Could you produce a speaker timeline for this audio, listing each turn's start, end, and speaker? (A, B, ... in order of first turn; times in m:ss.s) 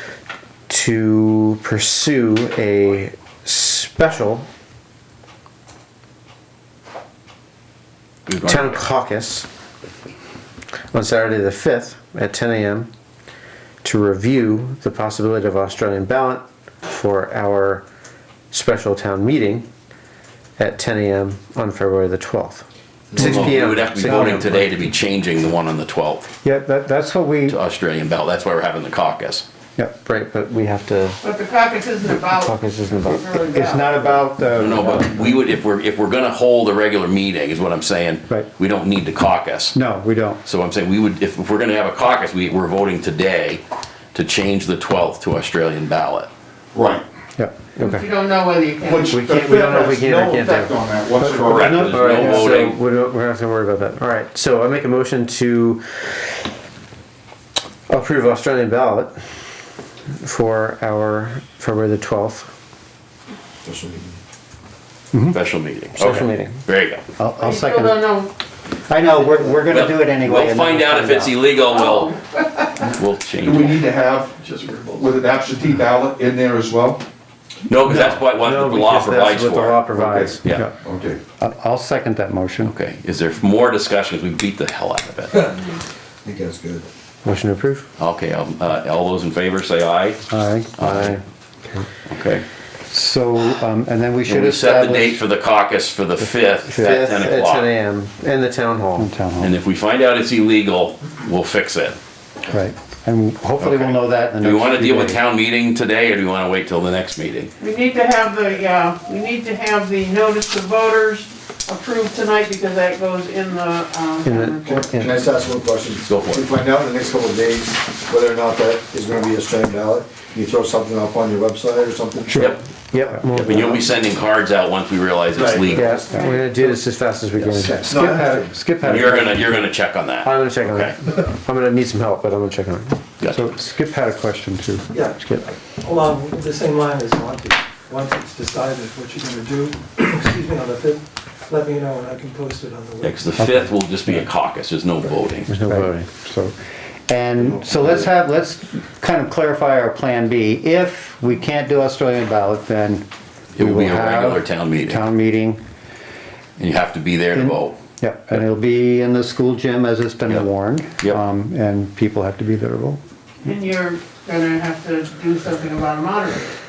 0:00.7-0:04.4 A
0:08.3-0:08.8 B
0:08.4-0:09.4 A
0:10.9-0:12.9 A
0:13.8-0:17.8 A
0:18.5-0:19.6 A
0:20.6-0:22.6 A
0:23.1-0:23.5 C
0:23.1-0:24.5 A
0:23.2-0:26.3 B
0:23.4-0:24.6 D
0:26.4-0:27.6 D
0:27.5-0:29.4 B
0:30.0-0:31.2 A
0:31.2-0:34.1 E
0:32.3-0:33.3 A
0:33.5-0:35.4 D
0:34.6-0:39.8 B
0:39.7-0:40.4 D
0:40.4-0:43.6 B
0:44.1-0:46.3 B
0:46.7-0:47.0 F
0:47.8-0:48.0 A
0:47.8-0:49.2 E
0:48.8-0:52.2 F
0:49.1-0:50.7 A
0:51.4-0:52.8 B
0:51.5-0:56.1 A
0:52.0-0:52.5 D
0:57.9-0:59.2 A
1:00.2-1:02.5 A
1:03.6-1:04.2 C
1:05.3-1:07.0 B
1:06.0-1:06.6 A
1:07.2-1:08.0 D
1:07.4-1:08.3 E
1:08.9-1:11.3 D
1:09.7-1:12.2 B
1:11.9-1:12.7 E
1:12.8-1:15.1 B
1:13.4-1:14.4 F
1:14.9-1:17.0 F
1:17.6-1:19.9 B
1:17.9-1:20.4 A
1:19.9-1:21.2 F
1:20.4-1:20.7 B
1:21.4-1:22.7 D
1:22.6-1:25.5 B
1:26.2-1:26.8 C
1:27.2-1:27.9 A
1:28.0-1:30.2 B
1:30.3-1:30.8 D
1:30.8-1:31.2 B
1:30.8-1:31.2 A
1:32.1-1:32.4 B
1:32.9-1:35.2 D
1:34.2-1:37.7 B
1:36.7-1:39.1 A
1:39.0-1:39.5 D
1:39.4-1:42.0 B
1:42.4-1:45.2 D
1:43.6-1:47.5 B
1:47.6-1:54.8 E
1:54.2-1:55.1 A
1:54.6-2:02.4 C
1:56.0-1:56.5 B
2:02.3-2:02.6 B
2:02.3-2:03.8 A
2:03.1-2:03.5 D
2:03.4-2:06.0 B
2:05.3-2:06.2 C
2:05.7-2:07.8 A
2:06.1-2:06.4 E
2:07.4-2:08.5 C
2:07.6-2:09.7 D
2:08.8-2:10.9 B
2:10.2-2:13.0 A
2:13.2-2:13.5 B
2:13.3-2:14.9 D
2:15.8-2:23.2 G
2:23.0-2:25.5 B
2:23.4-2:23.7 D
2:25.5-2:26.1 A
2:25.6-2:26.5 D
2:27.1-2:33.0 D
2:27.4-2:28.0 C
2:33.6-2:35.0 B
2:33.6-2:35.6 D
2:36.6-2:37.8 B
2:37.3-2:43.0 D
2:43.4-2:46.5 E